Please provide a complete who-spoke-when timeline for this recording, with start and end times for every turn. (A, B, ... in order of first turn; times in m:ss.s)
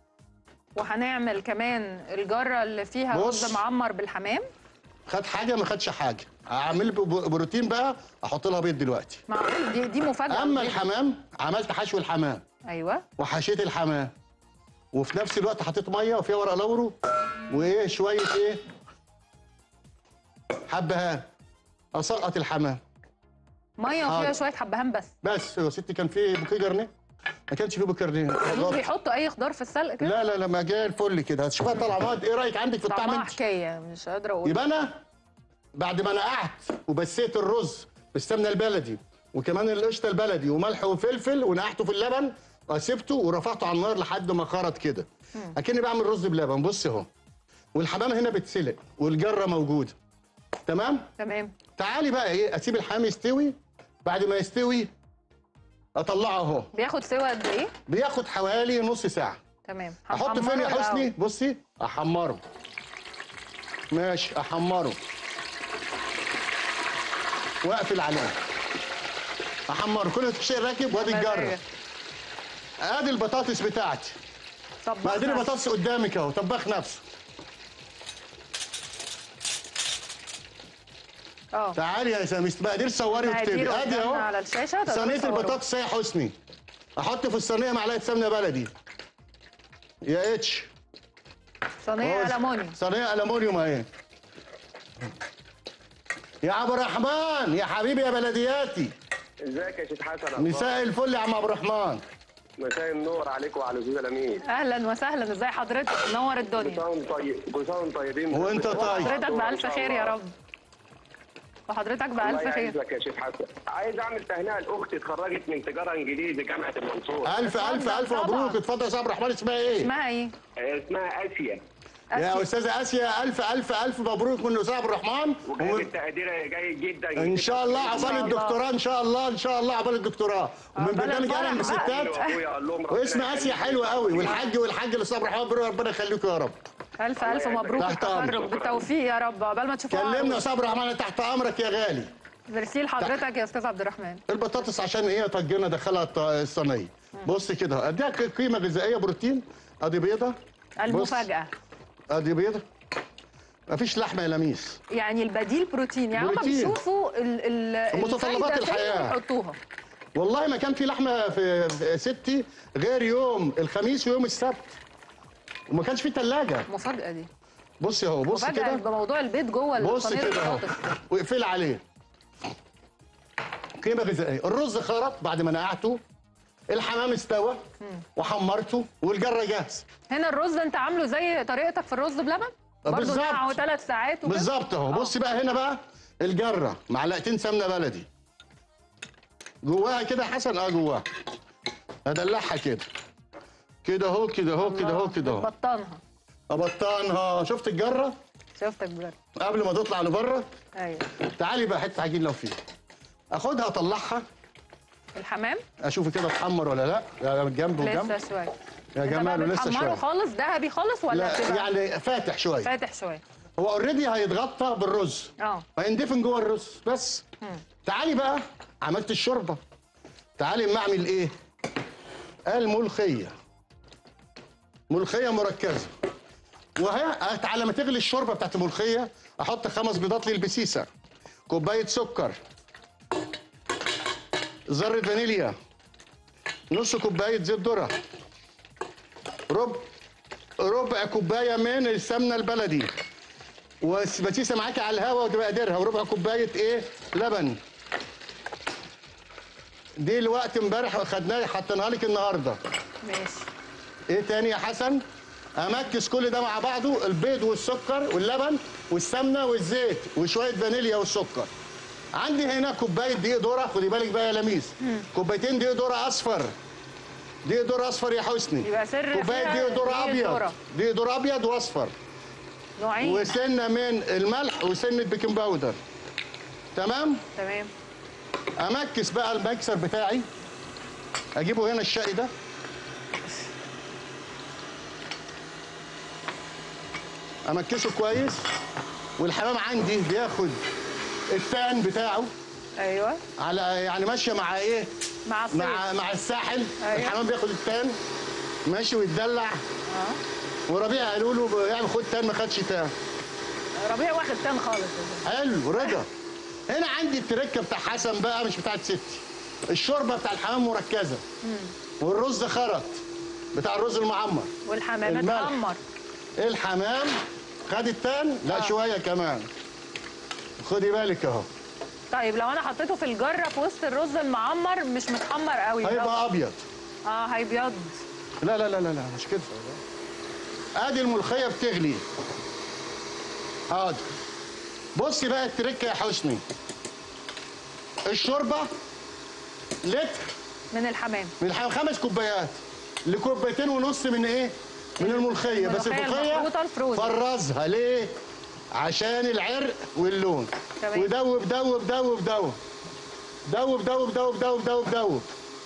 0:00.7-0:04.4 A
0:03.1-0:03.6 B
0:05.1-0:09.2 B
0:09.3-0:10.8 A
0:10.3-0:12.4 B
0:12.7-0:13.0 A
0:13.2-0:14.1 B
0:14.9-0:16.9 B
0:17.5-0:18.6 B
0:20.7-0:21.2 B
0:21.9-0:22.8 B
0:23.8-0:25.1 A
0:24.0-0:24.4 B
0:25.2-0:26.9 B
0:27.5-0:28.9 B
0:28.4-0:30.2 A
0:30.0-0:33.4 B
0:32.9-0:34.6 A
0:34.4-0:35.0 B
0:35.7-0:47.1 B
0:47.7-0:49.9 B
0:50.7-0:51.0 B
0:51.2-0:51.5 A
0:51.8-0:54.9 B
0:56.0-0:56.7 B
0:56.7-0:57.7 A
0:57.9-0:59.4 B
0:59.6-1:01.1 A
1:00.1-1:02.4 B
1:03.9-1:05.0 B
1:07.6-1:08.4 B
1:09.7-1:11.6 B
1:11.0-1:11.6 A
1:12.8-1:14.2 B
1:14.8-1:15.5 A
1:15.0-1:17.0 B
1:21.5-1:21.8 A
1:21.8-1:24.3 B
1:23.2-1:25.6 A
1:24.9-1:26.3 B
1:27.0-1:28.7 B
1:30.0-1:30.7 B
1:31.8-1:32.8 A
1:32.0-1:33.8 B
1:36.4-1:38.9 B
1:39.5-1:40.7 C
1:40.4-1:42.0 B
1:42.6-1:44.4 C
1:44.4-1:46.8 A
1:46.6-1:50.1 C
1:48.3-1:49.1 B
1:48.7-1:50.3 A
1:51.7-1:52.7 A
1:52.2-1:57.3 C
1:57.2-1:59.9 B
1:57.4-1:58.6 A
1:59.8-2:00.3 A
2:00.6-2:01.6 C
2:02.1-2:02.5 A
2:02.1-2:05.9 B
2:05.4-2:08.4 C
2:07.2-2:12.2 B
2:07.8-2:08.6 A
2:10.7-2:12.4 A
2:11.4-2:14.4 C
2:12.9-2:16.6 B
2:17.0-2:20.4 A
2:17.2-2:18.8 C
2:17.8-2:18.4 B
2:19.9-2:22.1 B
2:22.5-2:24.2 A
2:24.3-2:30.4 B
2:30.8-2:31.5 A
2:30.9-2:31.3 B
2:32.1-2:32.6 B
2:33.7-2:34.8 B
2:34.9-2:39.6 A
2:36.1-2:36.8 B
2:37.9-2:39.2 B
2:40.2-2:44.8 B
2:45.7-2:46.7 B
2:46.7-2:47.3 A
2:47.8-2:48.8 B
2:48.3-2:50.8 A
2:49.8-2:51.8 B
2:53.8-2:56.0 B
2:56.7-2:57.6 B
2:58.2-2:59.8 B
3:00.1-3:05.1 A
3:02.8-3:03.5 B
3:04.2-3:08.1 B
3:09.6-3:11.0 B
3:12.0-3:12.9 B
3:13.8-3:15.5 B
3:14.6-3:16.0 A
3:16.5-3:18.1 B
3:18.6-3:19.2 A
3:19.4-3:20.4 B
3:20.8-3:21.0 A
3:21.3-3:22.6 B
3:23.3-3:24.2 B
3:25.1-3:25.6 A
3:25.8-3:28.2 B
3:27.8-3:31.7 A
3:29.0-3:30.0 B
3:31.1-3:32.7 B
3:32.6-3:33.2 A
3:33.6-3:37.2 B
3:35.4-3:35.6 A
3:37.8-3:39.6 B
3:40.4-3:41.3 B
3:42.5-3:43.3 B
3:44.9-3:45.9 B
3:46.8-3:50.9 B
3:51.5-3:52.4 B
3:54.7-3:55.5 B
3:56.7-3:57.9 B
3:59.5-3:59.8 B
4:00.6-4:02.9 B
4:03.8-4:07.6 B
4:10.0-4:12.6 B
4:13.0-4:13.5 A
4:14.1-4:15.0 B
4:15.6-4:21.5 B
4:22.2-4:26.5 B
4:27.4-4:31.9 B
4:28.6-4:30.6 A
4:32.8-4:33.3 A
4:33.0-4:35.8 B
4:36.7-4:37.2 B
4:37.4-4:37.7 A
4:38.6-4:40.2 B
4:41.4-4:42.3 B
4:47.4-4:48.4 B
4:49.2-4:50.6 B
4:51.3-4:52.3 B
4:52.8-4:53.2 A
4:53.4-4:54.9 B
4:55.2-4:55.9 A
4:55.5-4:58.0 B
4:56.8-4:57.2 A
4:58.6-4:59.6 B
4:59.9-5:00.2 A
5:00.7-5:02.9 B
5:03.8-5:05.3 A
5:05.2-5:06.1 B
5:06.7-5:11.2 B
5:11.4-5:11.7 A
5:12.0-5:13.0 B
5:13.5-5:14.5 B
5:14.6-5:15.8 A
5:15.0-5:15.6 B
5:16.4-5:19.5 B
5:20.6-5:21.5 B
5:22.1-5:26.2 A
5:25.8-5:26.6 B
5:27.0-5:28.0 A
5:28.4-5:29.8 B
5:30.8-5:32.0 B
5:33.7-5:34.0 B
5:34.9-5:36.4 B
5:38.1-5:38.7 B
5:39.8-5:40.3 B
5:40.7-5:41.3 A
5:41.4-5:48.1 B
5:45.0-5:47.2 A
5:48.7-5:52.6 B
5:50.8-5:51.1 A
5:53.5-5:55.3 B